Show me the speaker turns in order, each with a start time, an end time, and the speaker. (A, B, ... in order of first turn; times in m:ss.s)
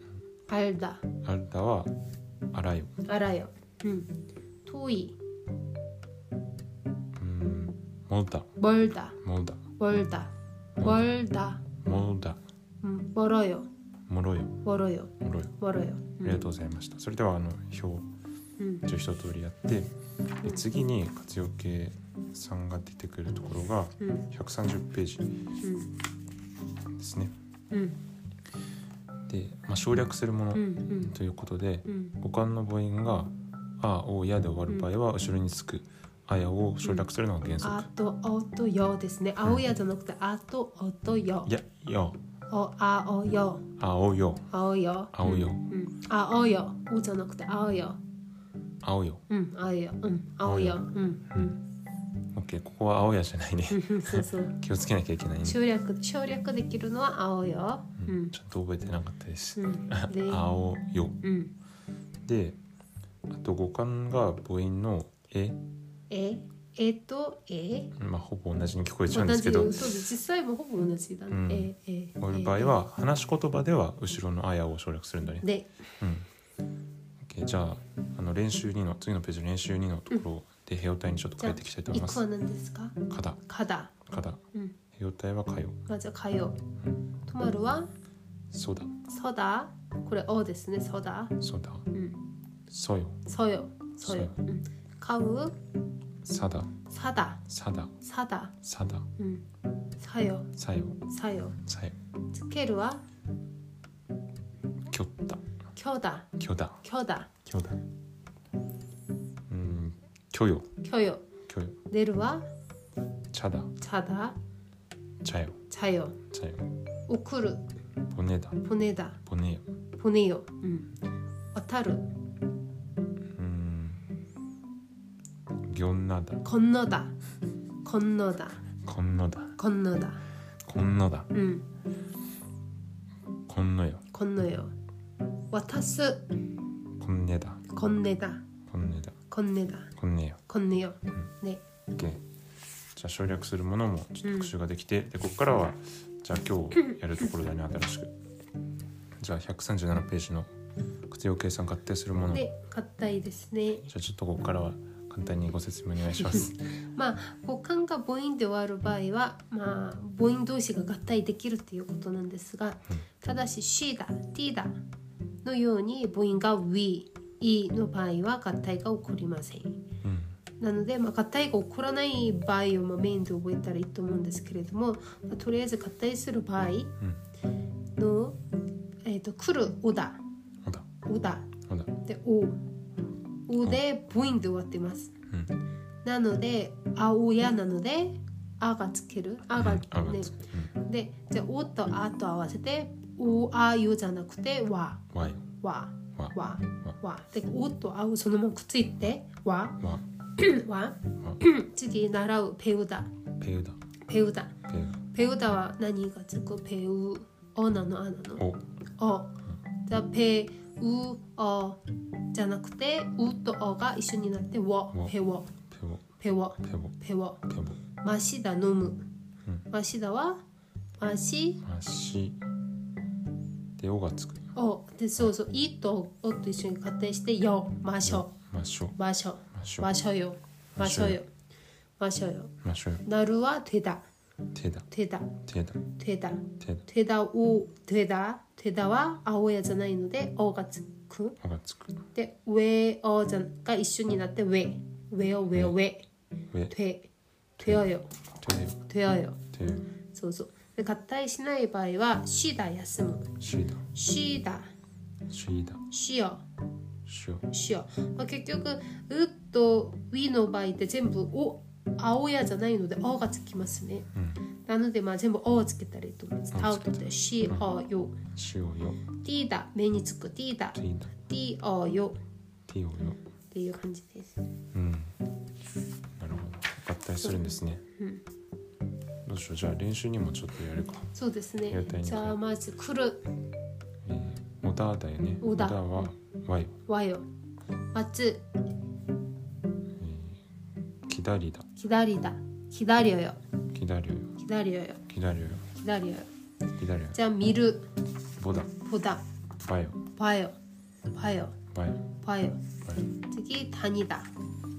0:00.5-0:01.1 A
0:01.2-0:01.9 B
0:02.5-0:03.0 B
0:03.0-0:04.1 A
0:04.6-0:05.2 A
0:07.2-0:08.5 B
0:08.6-0:09.2 A
0:09.2-0:09.6 B
0:09.8-0:11.7 A
0:10.8-0:11.1 B
0:11.7-0:12.4 B
0:12.8-0:13.7 A
0:14.1-0:14.6 B
0:14.6-0:16.4 A
0:15.2-0:15.6 B
0:16.2-0:18.1 B
0:18.6-0:18.9 A
0:18.8-0:19.9 B
0:20.4-0:25.4 B
0:24.0-0:24.3 A
0:25.6-0:25.9 A
0:27.0-0:27.4 B
0:27.7-0:28.0 A
0:29.3-0:37.9 B
0:30.6-0:31.1 A
0:31.9-0:32.1 A
0:37.6-0:41.5 A
0:41.5-0:42.2 B
0:42.5-0:43.7 A
0:43.8-0:44.5 B
0:44.5-0:48.0 A
0:45.1-0:45.7 B
0:48.8-0:49.2 B
0:49.3-0:51.6 A
0:50.4-0:51.6 B
0:52.3-0:55.6 B
0:53.7-0:54.6 A
0:55.4-0:58.3 A
0:58.0-1:01.2 B
0:59.6-1:00.4 A
1:01.2-1:01.5 A
1:02.2-1:02.6 B
1:03.3-1:05.6 B
1:06.1-1:08.0 A
1:08.0-1:10.1 B
1:09.1-1:12.8 A
1:11.3-1:15.5 B
1:15.4-1:15.7 A
1:16.0-1:16.3 B
1:17.2-1:22.2 B
1:21.4-1:24.0 A
1:23.1-1:23.4 B
1:24.0-1:24.4 B
1:24.9-1:25.8 B
1:25.9-1:26.6 A
1:27.3-1:27.9 A
1:28.5-1:29.0 B
1:29.1-1:31.4 A
1:31.4-1:31.9 B
1:31.9-1:32.2 A
1:32.7-1:33.2 B
1:33.3-1:35.6 A
1:34.0-1:34.4 B
1:36.2-1:36.7 B
1:36.9-1:37.4 A
1:37.5-1:37.9 B
1:38.0-1:38.5 A
1:38.6-1:39.1 B
1:39.2-1:39.4 A
1:40.0-1:40.5 A
1:40.6-1:41.0 B
1:41.1-1:41.6 A
1:41.6-1:42.0 B
1:42.3-1:43.0 A
1:44.9-1:45.4 B
1:45.8-1:46.3 A
1:46.4-1:46.8 B
1:46.8-1:47.3 A
1:47.5-1:47.8 B
1:49.5-1:50.7 B
1:50.8-1:51.2 A
1:51.5-1:51.8 B
1:51.9-1:52.5 A
1:53.3-1:53.8 B
1:53.8-1:54.4 A
1:55.2-1:55.6 B
1:55.7-1:56.2 A
1:56.3-1:56.7 B
1:57.1-1:57.6 A
1:58.1-1:58.6 B
1:58.6-1:59.2 A
1:59.2-1:59.7 B
2:00.0-2:00.9 A
2:01.5-2:02.1 A
2:03.3-2:04.0 B
2:05.6-2:06.4 B
2:06.4-2:07.1 A
2:07.8-2:08.6 A
2:08.8-2:09.6 B
2:09.6-2:10.2 A
2:10.6-2:11.3 B
2:11.3-2:11.7 A
2:13.5-2:14.0 B
2:14.1-2:14.7 A
2:15.5-2:16.2 A
2:17.0-2:17.6 B
2:17.7-2:18.4 A
2:18.7-2:19.2 B
2:19.3-2:19.9 A
2:20.0-2:20.4 B
2:20.5-2:21.6 A
2:21.9-2:22.2 B
2:23.0-2:28.2 B
2:24.2-2:24.5 A
2:29.2-2:30.5 B
2:31.1-2:32.4 B
2:32.3-2:33.9 A
2:33.8-2:36.6 B
2:36.9-2:44.8 A
2:45.4-2:49.8 A
2:50.0-2:50.4 B
2:50.6-2:56.9 A
2:58.0-2:58.4 A
2:59.0-3:00.2 A
3:01.0-3:02.6 A
3:03.5-3:05.1 A
3:06.0-3:15.1 A
3:09.6-3:10.7 B
3:15.1-3:15.5 B
3:15.6-3:19.8 A
3:16.2-3:16.9 B
3:20.4-3:23.2 A
3:23.3-3:23.8 B
3:24.1-3:24.6 A
3:24.7-3:25.0 B
3:25.1-3:28.5 A
3:28.4-3:28.6 B
3:29.0-3:29.4 A
3:29.9-3:31.8 A
3:32.3-3:35.5 A
3:35.7-3:36.1 B
3:36.2-3:37.4 A
3:36.6-3:37.0 B
3:37.5-3:37.8 B
3:38.0-3:39.1 A
3:39.7-3:40.4 A
3:41.0-3:41.6 A
3:41.6-3:42.4 B
3:43.8-3:44.5 B
3:44.6-3:48.3 A
3:48.0-3:49.0 B
3:49.0-3:51.3 A
3:49.5-3:49.9 B
3:50.8-3:51.2 B
3:52.0-3:52.5 A
3:52.6-3:53.0 B
3:53.0-3:54.0 A
3:54.5-3:55.8 B
3:54.9-3:55.4 A
3:55.9-4:01.4 A
4:01.4-4:02.0 B
4:02.1-4:06.1 A
4:06.7-4:08.2 A
4:07.6-4:07.8 B
4:08.4-4:08.8 B
4:08.8-4:09.4 A
4:09.5-4:09.9 B
4:10.1-4:13.3 A
4:13.4-4:13.8 B
4:13.9-4:14.7 A
4:15.3-4:15.8 B
4:15.9-4:16.4 A
4:17.1-4:17.5 B
4:17.5-4:24.1 A
4:24.1-4:24.5 B
4:24.7-4:28.2 A
4:26.5-4:27.7 B
4:28.3-4:29.0 B
4:29.1-4:32.2 A
4:30.8-4:31.1 B
4:32.7-4:33.2 B
4:33.5-4:34.4 A
4:34.7-4:35.2 B
4:36.2-4:37.8 B
4:37.2-4:38.2 A
4:39.2-4:41.1 B
4:41.2-4:43.3 A
4:41.7-4:42.4 B
4:44.0-4:46.8 B
4:45.4-4:46.1 A
4:46.9-4:47.3 A
4:47.9-4:48.4 A
4:50.0-4:50.4 B
4:51.1-4:51.7 B
4:51.8-4:53.4 A
4:53.7-4:54.4 B
4:54.4-4:55.0 A
4:55.1-4:55.7 B
4:55.8-4:56.3 A
4:56.8-4:57.2 B
4:57.1-4:57.9 A
4:58.4-4:58.8 B
4:58.8-4:59.2 A
4:59.6-5:00.1 B
5:00.1-5:00.6 A
5:01.1-5:01.6 A
5:01.7-5:02.1 B
5:02.2-5:02.6 A
5:03.3-5:04.3 A